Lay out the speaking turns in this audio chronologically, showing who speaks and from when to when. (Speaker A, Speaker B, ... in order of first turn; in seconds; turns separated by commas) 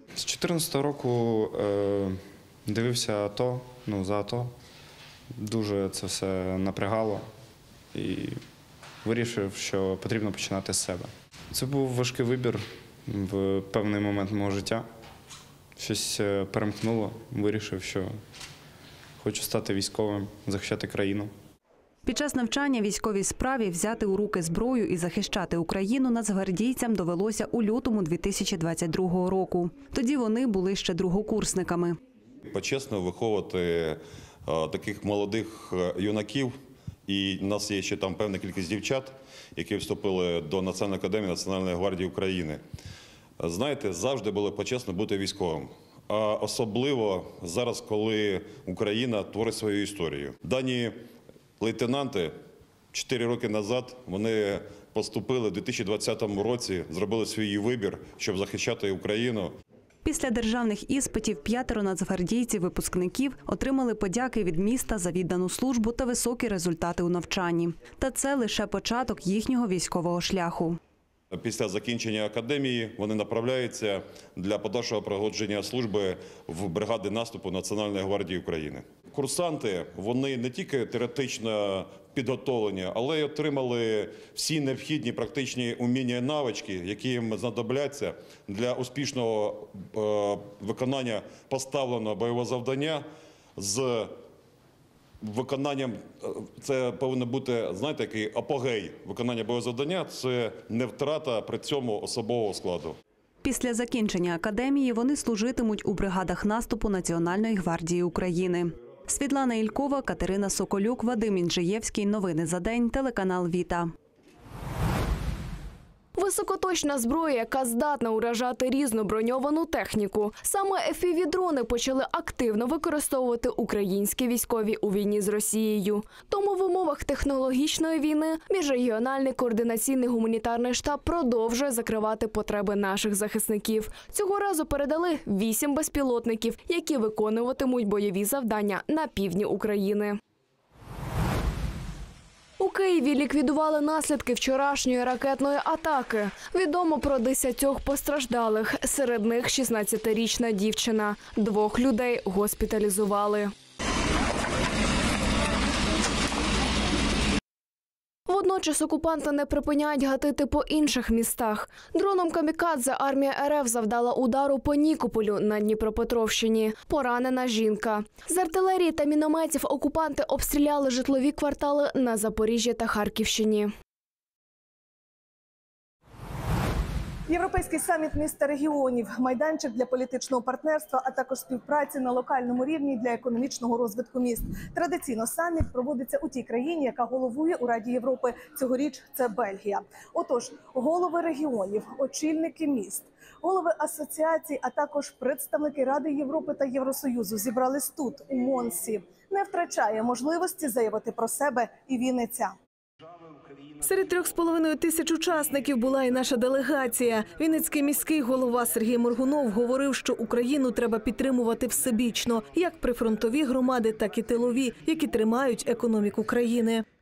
Speaker A: 0.2-4.5, Speaker A: 5.4-7.3, Speaker A: 7.9-8.4, Speaker A: 9.0-14.8, Speaker A: 15.8-18.1, Speaker A: 19.2-21.3, Speaker B: 22.1-32.0, Speaker C: 32.5-36.5, Speaker C: 37.1-42.6, Speaker C: 43.4-50.9, Speaker C: 51.6-52.3, Speaker C: 52.9-59.5, Speaker B: 60.0-70.8, Speaker C: 71.3-93.0, Speaker C: 93.6-94.1, Speaker C: 95.2-103.0, Speaker B: 103.4-113.9, Speaker D: 116.2-140.2, Speaker D: 142.6-153.5, Speaker D: 158.3-173.7, Speaker E: 177.3-202.5, Speaker F: 203.8-216.8